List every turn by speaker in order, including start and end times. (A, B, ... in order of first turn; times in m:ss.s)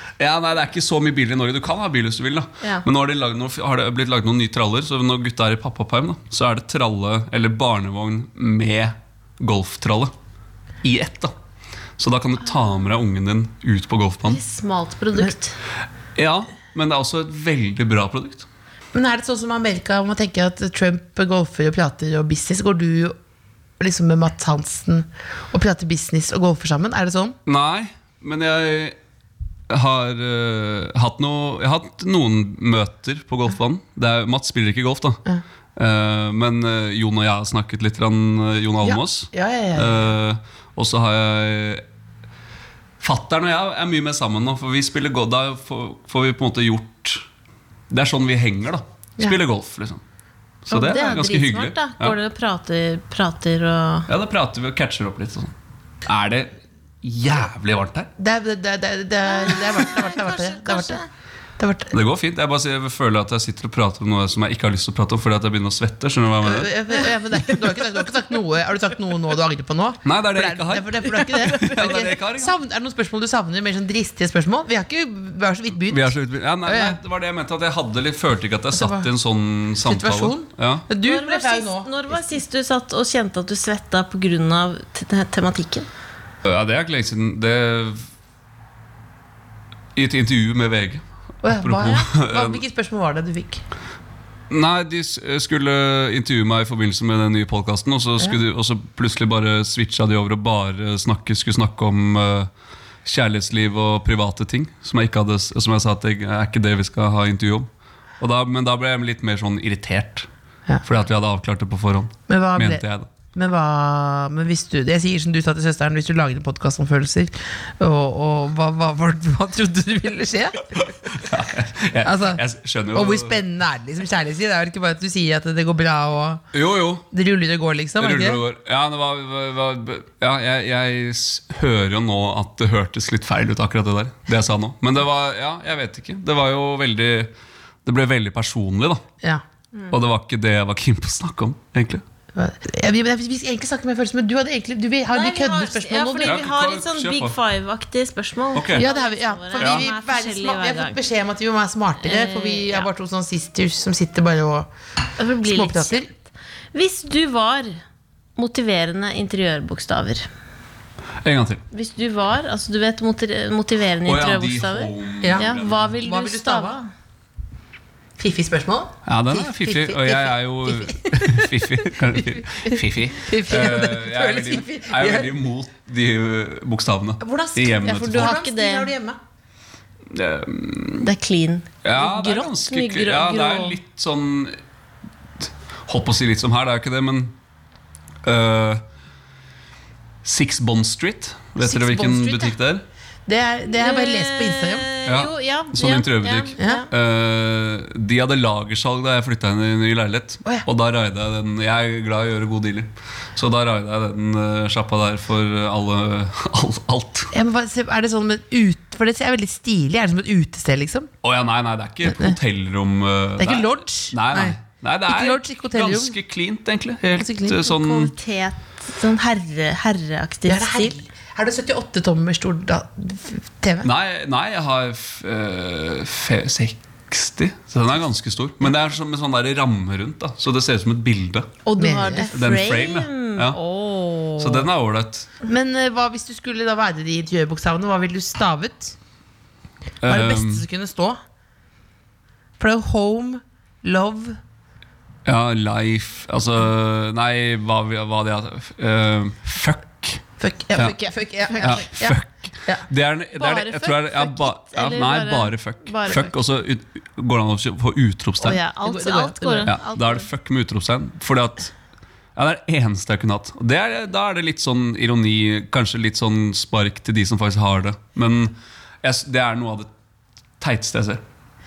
0:00.2-0:10.1 A
0:10.8-0:11.3 A
0:12.0-0:14.4 A
0:14.3-0:15.6 B
0:16.2-0:18.5 A
0:18.9-0:23.2 C
0:23.8-0:27.4 C
0:27.4-0:29.0 A
0:29.7-0:35.2 A
0:35.8-0:41.8 A
0:38.8-0:40.1 C
0:43.0-0:47.2 A
0:47.9-0:50.0 A
0:50.6-0:52.2 A
0:50.7-0:54.1 B
0:54.1-0:55.5 A
0:56.0-0:58.1 A
0:58.2-1:01.0 C
0:59.2-1:01.1 B
1:01.6-1:01.9 C
1:01.9-1:06.7 A
1:06.4-1:16.1 C
1:10.0-1:12.5 A
1:15.9-1:20.9 A
1:16.6-1:17.0 C
1:18.7-1:19.1 C
1:19.8-1:22.4 C
1:21.0-1:25.9 B
1:26.4-1:28.0 A
1:29.9-1:32.6 A
1:31.4-1:33.6 C
1:34.5-1:42.5 A
1:43.0-1:47.7 A
1:48.2-1:50.3 A
1:50.8-1:53.1 A
1:52.3-2:01.1 C
2:01.0-2:03.4 A
2:02.0-2:06.4 C
2:06.5-2:07.0 A
2:07.1-2:08.4 C
2:08.0-2:17.3 A
2:17.8-2:19.0 A
2:19.9-2:22.0 A
2:22.3-2:26.5 C
2:25.1-2:31.0 B
2:26.2-2:27.3 A
2:28.5-2:28.8 A
2:28.7-2:34.7 C
2:29.6-2:29.8 A
2:32.0-2:32.9 B
2:35.2-2:36.1 B
2:35.4-2:36.1 C
2:36.7-2:37.8 B
2:38.4-2:40.2 B
2:41.2-2:41.6 A
2:41.7-2:46.9 B
2:44.0-2:45.8 A
2:45.2-2:46.8 C
2:48.2-2:55.3 C
2:49.0-2:58.3 A
2:57.2-2:59.2 C
2:57.8-2:58.9 B
3:00.1-3:01.1 A
3:01.0-3:03.8 B
3:01.8-3:04.6 A
3:05.9-3:07.3 A
3:08.2-3:08.8 A
3:10.2-3:12.8 A
3:11.6-3:12.5 C
3:13.3-3:14.9 C
3:13.7-3:16.9 B
3:15.0-3:27.3 A
3:16.6-3:16.8 C
3:27.3-3:31.1 C
3:31.2-3:38.1 A
3:32.0-3:32.4 C
3:33.4-3:34.6 C
3:35.1-3:36.2 C
3:37.2-3:37.6 C
3:37.6-3:40.9 B
3:40.4-3:43.9 C
3:43.8-3:51.6 A
3:51.6-3:54.6 B
3:51.8-3:52.3 C
3:52.3-3:53.6 A
3:54.4-3:55.3 A
3:55.4-3:59.0 C
4:00.0-4:00.6 A
4:00.0-4:01.2 C
4:02.6-4:04.4 C
4:05.2-4:10.2 A
4:10.4-4:12.8 C
4:10.8-4:11.9 B
4:11.6-4:18.6 A
4:13.4-4:16.4 B
4:18.4-4:20.2 B
4:18.8-4:19.7 C
4:19.6-4:21.7 A
4:22.4-4:29.9 A
4:30.6-4:31.2 A